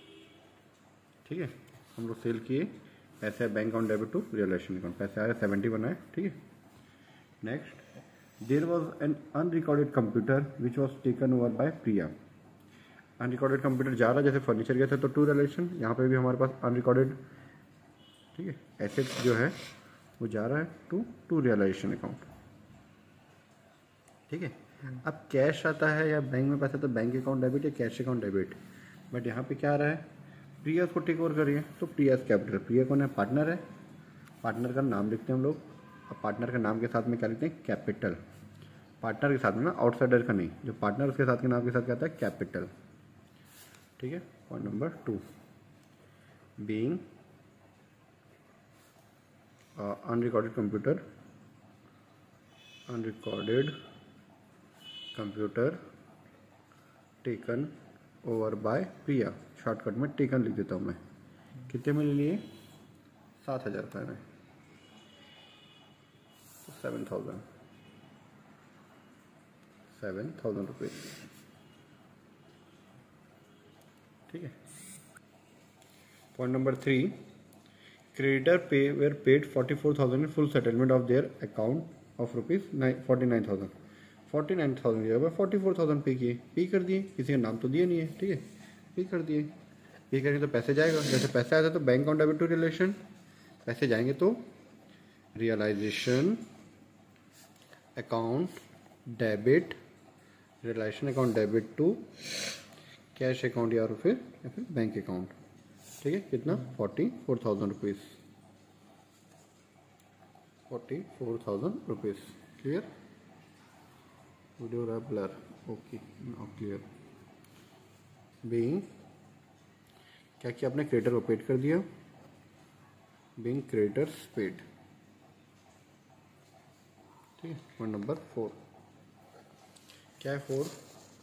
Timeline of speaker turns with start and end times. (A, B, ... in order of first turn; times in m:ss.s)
0:01.2-0:06.4 A
0:07.4-0:07.8 A
0:08.4-0:12.1 A
0:13.2-0:17.2 A
0:18.3-0:19.6 A
0:20.2-0:22.3 A
0:24.3-0:28.6 A
0:29.1-0:30.0 A
0:30.6-0:33.6 A
0:34.4-0:38.2 A
0:39.0-0:42.7 A
0:44.0-0:45.2 A
0:46.6-0:47.0 A
0:49.8-0:51.0 A
0:52.9-0:53.7 A
0:55.1-0:55.8 A
0:57.2-1:01.0 A
1:01.7-1:02.4 A
1:03.4-1:04.2 A
1:06.6-1:07.4 A
1:09.9-1:11.1 A
1:14.3-1:14.5 A
1:16.3-1:17.2 A
1:18.1-1:23.7 A
1:24.3-1:28.4 A
1:28.9-1:29.5 A
1:30.1-1:33.0 A
1:33.6-1:34.4 A
1:35.4-1:36.4 A
1:38.0-1:39.8 A
1:40.6-1:42.0 A
1:43.1-1:45.3 A
1:46.0-1:48.2 A
1:50.7-1:52.9 A
1:54.6-1:56.8 A
1:58.4-1:58.9 A
2:00.4-2:01.9 A
2:03.4-2:04.6 A
2:07.4-2:08.6 A
2:10.2-2:10.8 A